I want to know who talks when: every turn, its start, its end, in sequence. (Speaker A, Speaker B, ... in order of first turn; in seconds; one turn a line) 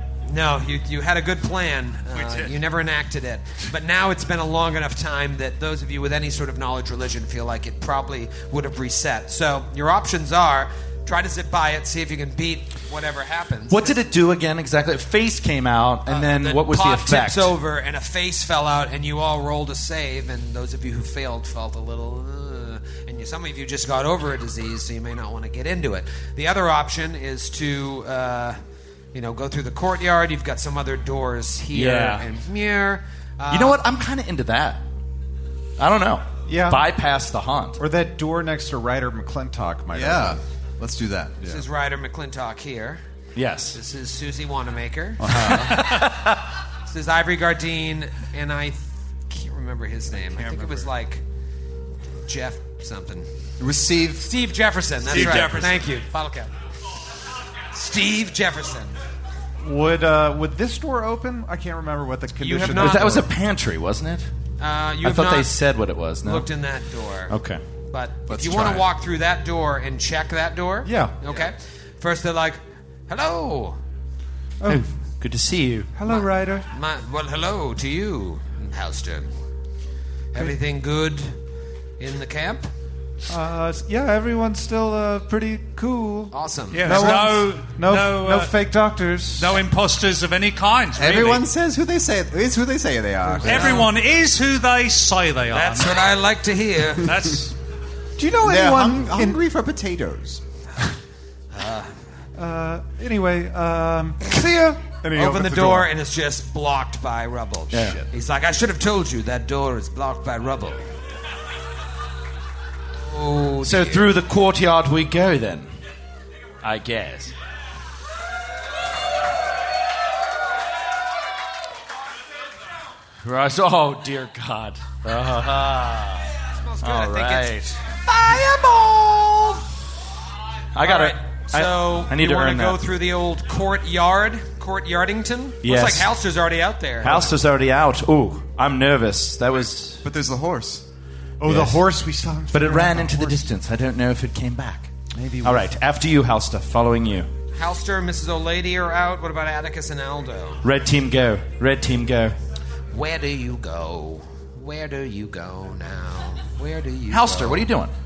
Speaker A: 0.3-14.0
Speaker B: 13.7-17.5
Speaker A: 16.1-28.6
Speaker A: 29.1-33.8
Speaker B: 31.7-32.2
Speaker B: 33.5-34.8
Speaker B: 35.8-37.8
Speaker C: 36.5-36.9
Speaker C: 37.8-40.4
Speaker D: 39.9-41.6
Speaker A: 41.4-43.0
Speaker B: 43.4-43.8
Speaker A: 43.7-45.6
Speaker C: 45.2-45.8
Speaker B: 45.3-46.4
Speaker A: 46.9-51.2
Speaker E: 50.3-50.9
Speaker A: 52.2-53.3
Speaker D: 53.6-54.3
Speaker A: 54.2-56.5
Speaker D: 55.1-55.6
Speaker E: 55.1-55.8
Speaker A: 57.7-59.0
Speaker C: 59.6-63.3
Speaker A: 62.4-63.2
Speaker B: 62.7-64.3
Speaker A: 64.6-65.5
Speaker B: 65.0-66.5
Speaker A: 66.2-67.3
Speaker B: 67.3-67.6
Speaker A: 67.9-73.8
Speaker D: 68.3-68.9
Speaker C: 70.8-71.2
Speaker C: 74.6-74.9
Speaker B: 74.7-75.9
Speaker C: 76.0-76.7
Speaker A: 76.1-79.3
Speaker A: 80.3-81.4
Speaker A: 82.0-82.7
Speaker C: 83.3-89.6
Speaker A: 86.3-87.2
Speaker E: 86.7-88.5
Speaker E: 89.4-91.5
Speaker D: 91.0-93.9
Speaker E: 93.4-96.0
Speaker C: 93.5-93.8
Speaker A: 95.5-97.2
Speaker E: 97.0-97.5
Speaker C: 98.2-99.4
Speaker D: 98.4-100.4
Speaker A: 101.5-101.9
Speaker C: 102.4-105.9
Speaker A: 105.1-110.8
Speaker B: 107.7-108.1
Speaker A: 113.0-114.1
Speaker B: 113.6-115.7
Speaker B: 116.6-117.3
Speaker B: 123.2-127.8
Speaker A: 126.5-129.6
Speaker B: 130.7-132.8
Speaker A: 130.8-137.3
Speaker B: 135.6-136.1
Speaker B: 137.0-140.0
Speaker D: 140.0-140.8
Speaker C: 141.4-143.5
Speaker B: 141.5-141.8
Speaker B: 142.5-144.9
Speaker C: 145.1-145.7
Speaker B: 145.4-147.3
Speaker A: 147.5-150.6
Speaker B: 150.6-152.4
Speaker A: 152.9-157.7
Speaker B: 157.1-157.9